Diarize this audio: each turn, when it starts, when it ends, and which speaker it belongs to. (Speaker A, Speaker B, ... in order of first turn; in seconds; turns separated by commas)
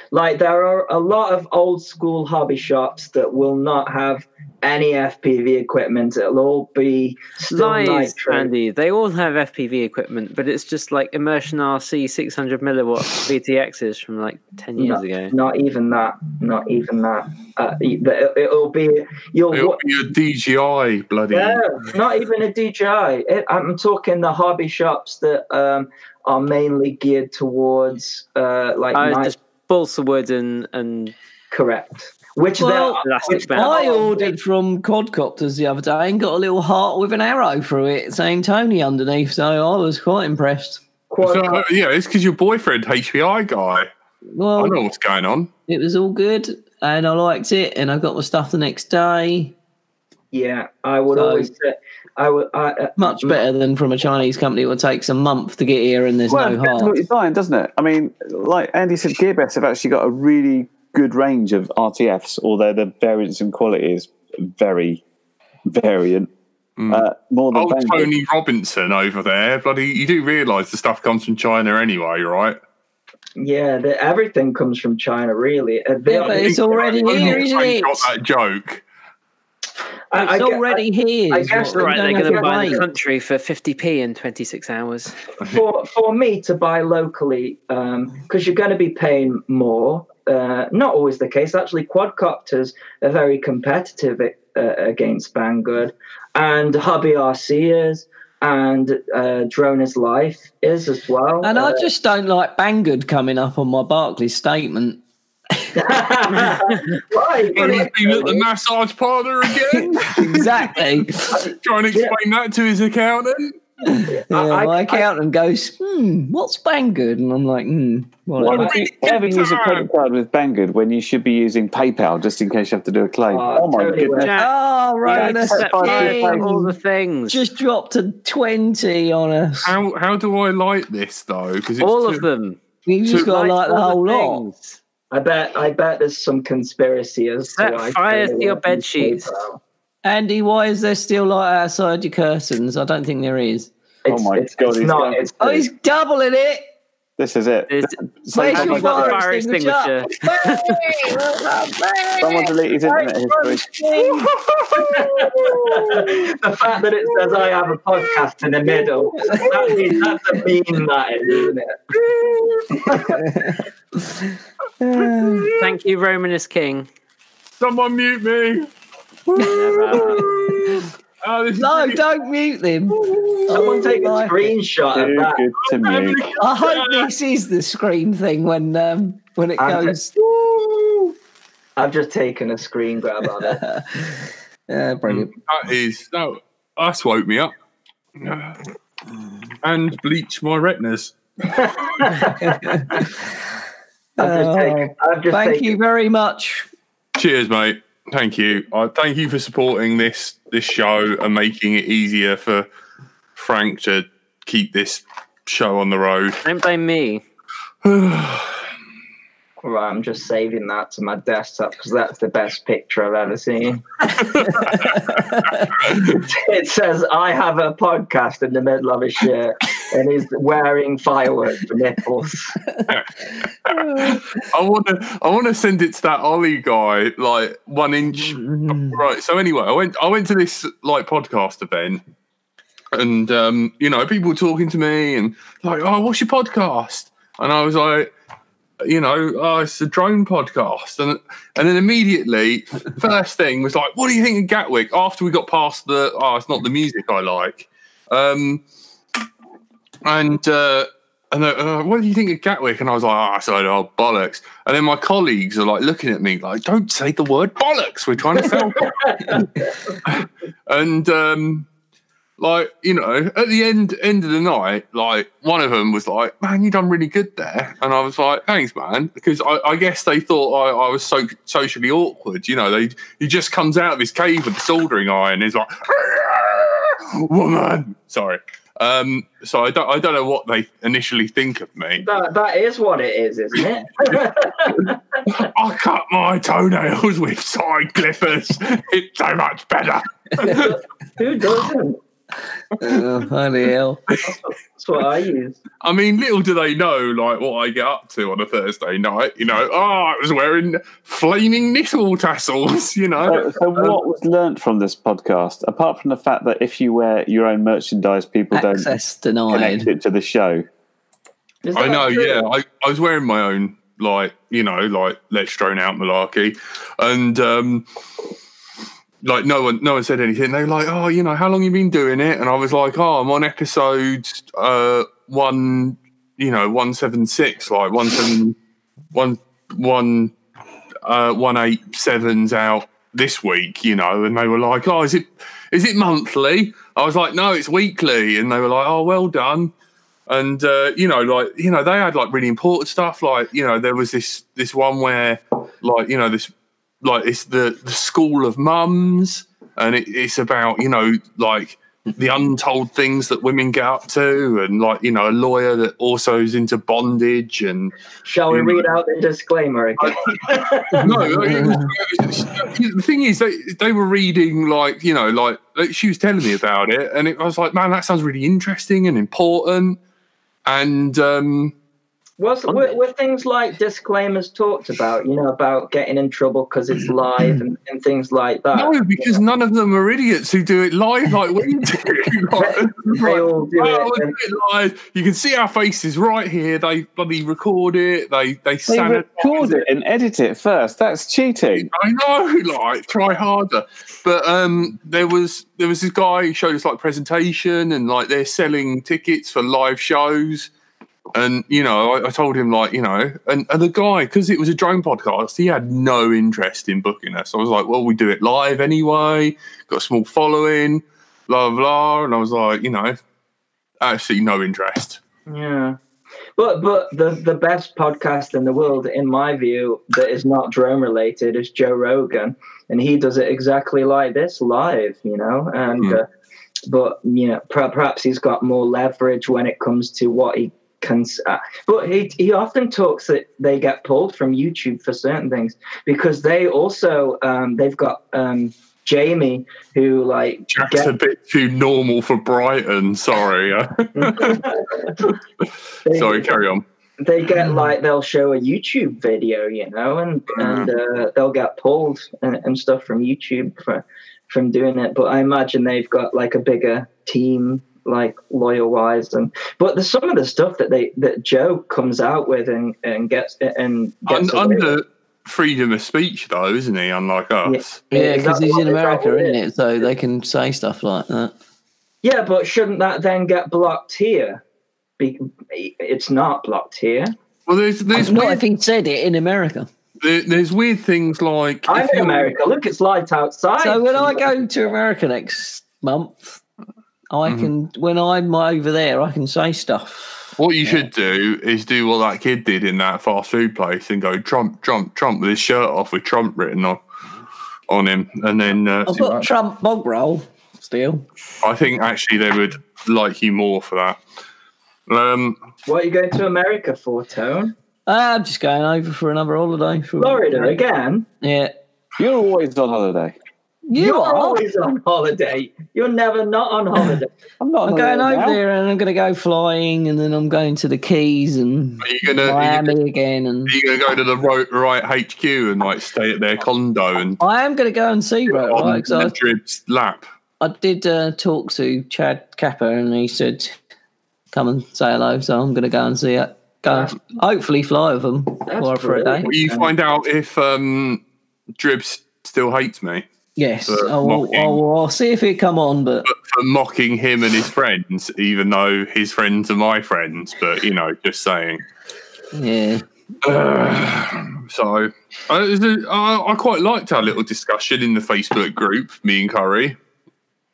Speaker A: 0.1-8.5, Speaker B: 7.5-15.3, Speaker A: 14.8-19.8, Speaker C: 19.5-21.7, Speaker A: 21.3-29.3, Speaker B: 28.9-31.1, Speaker A: 31.5-34.3, Speaker D: 32.6-40.8, Speaker B: 33.0-34.1, Speaker A: 41.1-41.6, Speaker C: 41.2-43.9, Speaker D: 44.3-44.8, Speaker C: 44.6-45.5, Speaker D: 45.7-49.5, Speaker A: 50.3-53.4, Speaker D: 51.1-51.5, Speaker D: 53.0-56.9, Speaker E: 56.3-65.0, Speaker E: 65.7-66.3, Speaker C: 66.8-72.6, Speaker E: 66.9-68.1, Speaker A: 73.4-77.5, Speaker D: 76.1-78.1, Speaker C: 76.2-78.8, Speaker A: 80.1-82.8, Speaker D: 80.1-82.8, Speaker B: 81.7-85.2, Speaker A: 85.4-101.9, Speaker D: 101.4-105.0, Speaker A: 105.7-108.4, Speaker C: 107.5-113.6, Speaker D: 109.7-111.5, Speaker D: 113.8-118.8, Speaker A: 114.1-115.1, Speaker E: 118.4-124.3, Speaker C: 118.7-119.9, Speaker A: 123.3-124.3, Speaker B: 124.2-127.4, Speaker D: 124.3-126.7, Speaker E: 125.0-126.6, Speaker D: 127.3-129.8, Speaker C: 129.6-132.2, Speaker B: 131.8-134.8, Speaker D: 132.8-134.4, Speaker A: 135.1-139.6, Speaker B: 137.5-139.3, Speaker D: 140.0-143.7, Speaker A: 144.0-145.7, Speaker E: 144.1-145.3, Speaker D: 145.4-146.6, Speaker E: 147.2-149.2, Speaker B: 147.7-150.8, Speaker D: 148.3-154.3, Speaker E: 152.2-153.8, Speaker C: 154.0-156.1, Speaker A: 154.8-161.8, Speaker D: 159.2-160.1, Speaker C: 159.2-159.9, Speaker C: 161.9-163.2, Speaker A: 162.8-163.2, Speaker D: 163.1-165.5, Speaker C: 164.9-165.7, Speaker B: 165.6-166.9, Speaker C: 167.6-168.7, Speaker C: 169.3-172.1, Speaker D: 169.3-170.7, Speaker B: 169.4-170.3, Speaker D: 171.5-174.5, Speaker C: 172.9-173.9, Speaker A: 173.5-175.4, Speaker E: 174.9-176.3, Speaker C: 175.6-177.1, Speaker D: 176.4-180.2, Speaker A: 179.6-179.9, Speaker A: 181.8-183.6, Speaker D: 183.2-185.3, Speaker C: 185.1-187.5, Speaker C: 188.2-188.6, Speaker C: 189.6-191.1, Speaker A: 191.5-193.1, Speaker D: 192.4-193.1, Speaker A: 194.2-195.8, Speaker D: 194.2-196.7, Speaker C: 197.2-202.7, Speaker C: 203.3-206.4, Speaker B: 206.4-207.2, Speaker C: 207.8-208.6, Speaker A: 209.6-214.9, Speaker C: 214.2-215.1, Speaker D: 214.8-215.7, Speaker C: 215.6-216.2, Speaker A: 215.8-222.6, Speaker C: 222.9-232.0, Speaker D: 223.7-224.2, Speaker D: 228.2-229.0, Speaker C: 232.9-238.1, Speaker C: 238.8-248.6, Speaker C: 250.0-259.5, Speaker A: 258.5-259.9, Speaker C: 260.0-261.7, Speaker C: 262.4-282.0, Speaker A: 282.0-285.0, Speaker C: 283.6-284.1, Speaker C: 285.3-290.7, Speaker A: 290.4-292.0, Speaker D: 292.8-294.0, Speaker A: 294.2-295.6, Speaker C: 295.8-304.0, Speaker E: 303.2-308.9, Speaker D: 308.5-309.9, Speaker E: 309.5-310.6, Speaker A: 311.6-312.5, Speaker C: 311.7-317.8, Speaker C: 319.2-328.6, Speaker C: 329.1-330.3, Speaker C: 331.0-339.7, Speaker C: 340.3-346.5, Speaker C: 347.0-357.9, Speaker A: 358.2-361.1, Speaker C: 358.5-358.9, Speaker C: 360.0-360.4, Speaker C: 360.9-370.0, Speaker D: 361.2-361.9, Speaker C: 370.6-371.7, Speaker A: 372.4-379.4, Speaker C: 378.7-389.8, Speaker A: 382.6-384.3, Speaker E: 388.9-391.9, Speaker C: 391.8-400.7, Speaker C: 401.3-413.2, Speaker C: 414.0-415.2, Speaker A: 415.5-416.0, Speaker A: 416.6-426.3, Speaker A: 426.9-441.1, Speaker C: 440.7-444.6, Speaker A: 444.1-445.3, Speaker A: 446.1-446.6, Speaker C: 446.1-446.8, Speaker A: 447.2-464.9, Speaker C: 450.6-450.9, Speaker C: 464.3-468.0, Speaker A: 467.6-470.1, Speaker D: 468.1-471.5, Speaker A: 472.2-474.6, Speaker A: 475.2-477.3, Speaker C: 477.7-478.6, Speaker D: 478.1-479.9, Speaker C: 480.2-482.5, Speaker A: 481.9-484.5, Speaker D: 483.8-486.6, Speaker D: 487.3-491.1, Speaker C: 487.4-487.7, Speaker C: 490.6-497.0, Speaker C: 497.9-499.5, Speaker D: 499.1-501.2, Speaker C: 501.6-504.2, Speaker C: 505.1-505.6, Speaker A: 505.9-507.7, Speaker D: 508.1-510.8, Speaker A: 510.2-511.3, Speaker D: 511.4-511.7, Speaker E: 512.2-513.4, Speaker D: 513.9-514.6, Speaker A: 514.0-517.3, Speaker E: 517.6-518.6, Speaker D: 517.9-523.7, Speaker C: 522.0-523.0, Speaker C: 523.7-527.4, Speaker D: 527.4-529.4, Speaker C: 528.5-530.2, Speaker D: 530.6-533.8, Speaker D: 534.5-539.5, Speaker A: 538.7-539.9, Speaker C: 539.4-541.2, Speaker C: 541.8-543.2, Speaker D: 543.6-546.3, Speaker C: 543.9-544.8, Speaker C: 546.2-551.8, Speaker D: 552.5-553.0, Speaker C: 553.4-560.0